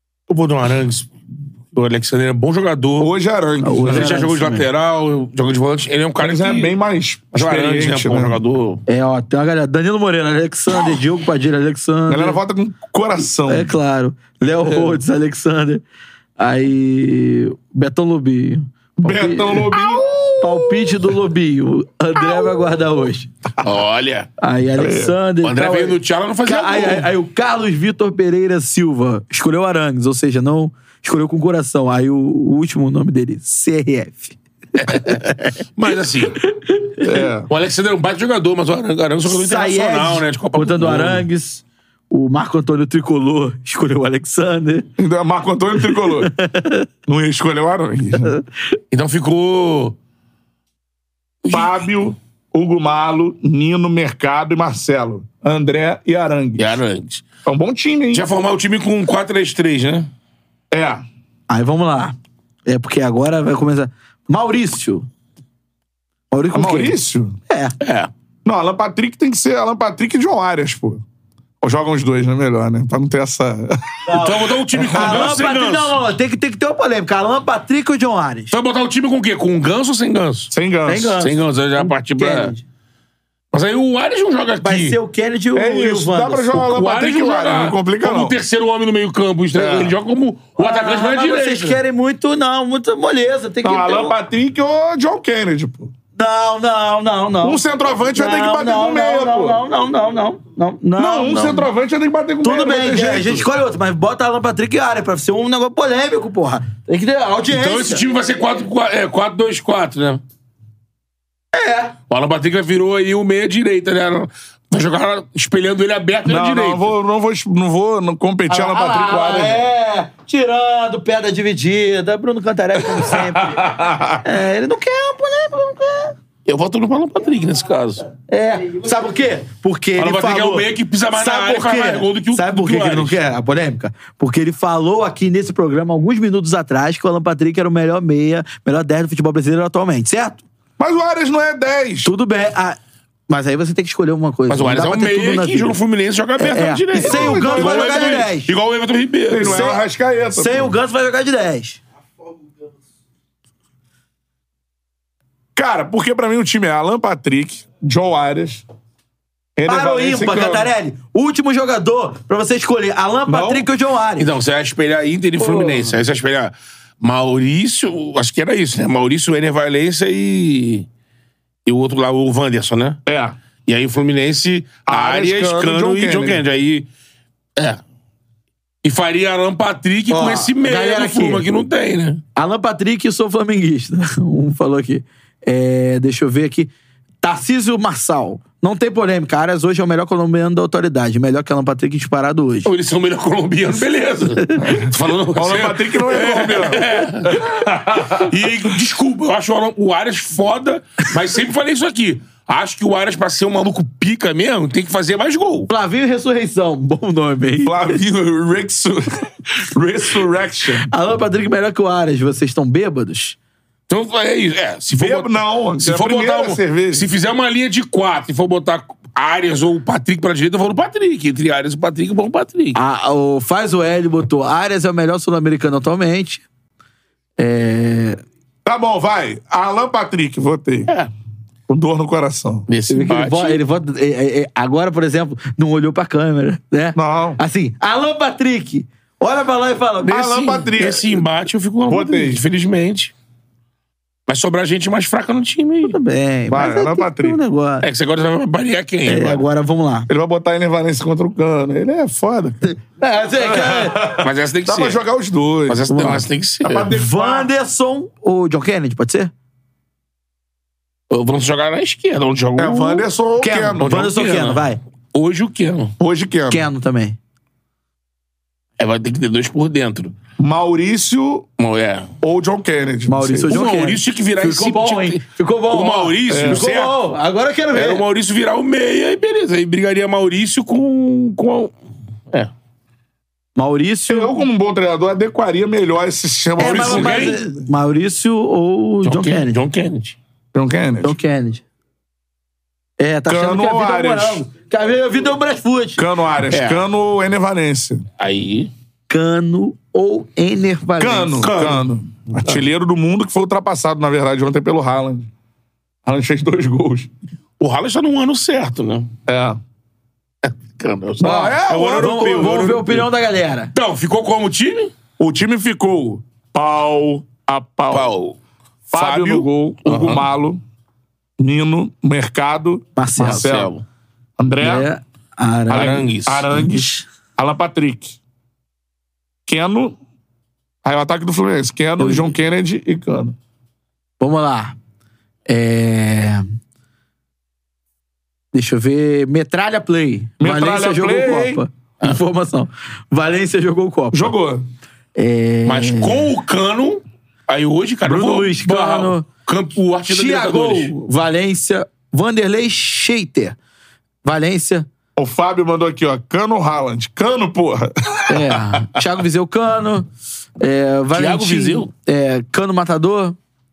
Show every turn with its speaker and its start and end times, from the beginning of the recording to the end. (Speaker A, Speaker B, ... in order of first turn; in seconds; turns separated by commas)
Speaker A: 0.3-1.1, Speaker A: 1.7-3.1, Speaker B: 3.0-4.1, Speaker C: 3.6-4.7, Speaker A: 3.8-6.7, Speaker B: 6.2-8.4, Speaker A: 7.3-8.8, Speaker C: 8.9-12.4, Speaker B: 12.1-13.7, Speaker C: 13.5-15.8, Speaker A: 14.7-14.9, Speaker C: 16.4-19.8, Speaker B: 19.0-20.1, Speaker C: 20.4-23.3, Speaker A: 23.6-24.3, Speaker C: 24.4-35.5, Speaker B: 24.8-25.1, Speaker A: 25.4-27.1, Speaker A: 34.9-35.2, Speaker A: 35.7-36.4, Speaker C: 36.5-37.1, Speaker B: 37.0-37.5, Speaker A: 37.5-41.2, Speaker C: 39.3-44.9, Speaker B: 45.0-46.3, Speaker C: 45.8-46.9, Speaker B: 47.1-48.3, Speaker C: 48.2-48.8, Speaker A: 48.9-50.0, Speaker A: 51.4-51.8, Speaker B: 51.5-56.8, Speaker A: 56.6-57.3, Speaker B: 57.4-58.3, Speaker A: 58.1-60.1, Speaker B: 60.7-61.0, Speaker C: 61.5-65.1, Speaker C: 66.3-67.0, Speaker B: 66.5-67.4, Speaker C: 67.5-67.7, Speaker A: 67.8-68.1, Speaker B: 68.4-71.0, Speaker B: 71.6-74.2, Speaker C: 74.0-78.5, Speaker A: 74.1-76.0, Speaker B: 74.7-75.3, Speaker A: 78.5-80.5, Speaker B: 80.5-81.2, Speaker C: 80.8-82.6, Speaker A: 81.2-82.5, Speaker A: 83.5-85.0, Speaker C: 84.6-86.5, Speaker B: 85.5-88.3, Speaker A: 86.5-91.8, Speaker B: 89.5-90.0, Speaker C: 90.6-94.1, Speaker B: 93.6-95.9, Speaker C: 96.2-97.6, Speaker B: 97.4-99.6, Speaker C: 98.1-101.7, Speaker B: 101.0-103.5, Speaker C: 102.4-108.1, Speaker A: 107.5-110.2, Speaker C: 111.5-111.9, Speaker A: 112.1-116.9, Speaker B: 116.2-119.6, Speaker C: 118.5-126.1, Speaker B: 122.9-124.2, Speaker A: 126.5-128.1, Speaker C: 128.3-140.4, Speaker A: 130.0-133.2, Speaker B: 140.8-142.1, Speaker C: 142.0-145.8, Speaker A: 144.5-149.7, Speaker C: 146.4-148.5, Speaker B: 146.9-148.3, Speaker B: 149.3-150.7, Speaker C: 149.4-149.8, Speaker C: 150.3-151.8, Speaker B: 155.6-158.6, Speaker B: 159.6-160.7, Speaker C: 159.6-164.3, Speaker B: 163.3-163.7, Speaker A: 164.2-170.9, Speaker C: 165.4-165.9, Speaker A: 171.7-173.0, Speaker B: 173.1-173.4, Speaker A: 173.7-176.9, Speaker B: 174.9-176.4, Speaker A: 178.8-182.2, Speaker C: 180.1-181.4, Speaker C: 182.3-192.7, Speaker A: 192.6-205.7, Speaker C: 194.5-194.9, Speaker B: 195.3-198.3, Speaker C: 205.7-208.0, Speaker B: 207.6-210.9, Speaker C: 210.8-213.4, Speaker A: 213.9-222.8, Speaker B: 214.9-217.1, Speaker C: 222.7-226.4, Speaker C: 227.4-228.2, Speaker B: 228.6-230.9, Speaker B: 231.7-232.7, Speaker A: 232.7-233.6, Speaker C: 232.9-240.4, Speaker B: 236.9-237.4, Speaker A: 240.0-243.1, Speaker B: 240.1-241.2, Speaker B: 241.9-242.4, Speaker A: 244.3-245.9, Speaker C: 245.9-247.9, Speaker B: 246.5-247.4, Speaker A: 247.8-249.4, Speaker C: 249.1-250.1, Speaker B: 250.1-252.7, Speaker C: 252.7-254.1, Speaker B: 253.4-255.9, Speaker A: 254.1-255.0, Speaker A: 255.7-256.9, Speaker C: 255.9-256.2, Speaker B: 256.6-257.5, Speaker C: 256.9-259.3, Speaker A: 261.1-263.1, Speaker B: 262.6-264.0, Speaker C: 263.4-264.8, Speaker A: 263.8-264.6, Speaker A: 265.1-265.9, Speaker B: 266.0-266.6, Speaker C: 266.5-267.2, Speaker A: 268.8-270.1, Speaker B: 270.4-271.5, Speaker A: 271.6-272.1, Speaker B: 272.2-273.6, Speaker C: 273.1-278.0, Speaker A: 273.5-277.0, Speaker B: 276.3-276.6, Speaker A: 277.7-281.7, Speaker C: 283.6-284.4, Speaker B: 284.1-287.6, Speaker C: 286.6-289.6, Speaker A: 286.6-287.4, Speaker A: 289.0-290.2, Speaker B: 290.5-291.1, Speaker C: 291.0-291.6, Speaker C: 293.0-296.0, Speaker B: 293.3-294.4, Speaker B: 296.0-298.0, Speaker A: 296.5-296.8, Speaker A: 298.2-298.7, Speaker C: 299.1-301.5, Speaker B: 301.0-305.3, Speaker A: 301.4-301.8, Speaker B: 306.1-307.1, Speaker A: 307.6-309.1, Speaker B: 309.3-309.6, Speaker A: 310.4-313.1, Speaker B: 311.2-312.9, Speaker C: 311.2-313.7, Speaker A: 313.7-314.9, Speaker B: 315.2-318.1, Speaker A: 317.9-318.4, Speaker B: 318.9-320.6, Speaker A: 318.9-320.2, Speaker B: 321.4-323.7, Speaker C: 322.9-323.6, Speaker A: 323.2-323.8, Speaker B: 324.4-324.9, Speaker C: 324.6-326.1, Speaker B: 325.7-328.2, Speaker A: 325.7-326.5, Speaker B: 329.5-330.0, Speaker B: 330.8-333.3, Speaker C: 332.0-332.3, Speaker C: 334.2-334.8, Speaker C: 335.5-336.4, Speaker C: 338.5-344.3, Speaker B: 340.4-341.6, Speaker B: 344.1-344.6, Speaker C: 345.1-346.3, Speaker A: 345.6-350.9, Speaker C: 348.0-349.3, Speaker C: 350.1-353.6, Speaker C: 354.2-354.9, Speaker B: 355.2-359.0, Speaker C: 358.3-360.1, Speaker C: 360.6-363.4, Speaker A: 361.1-361.9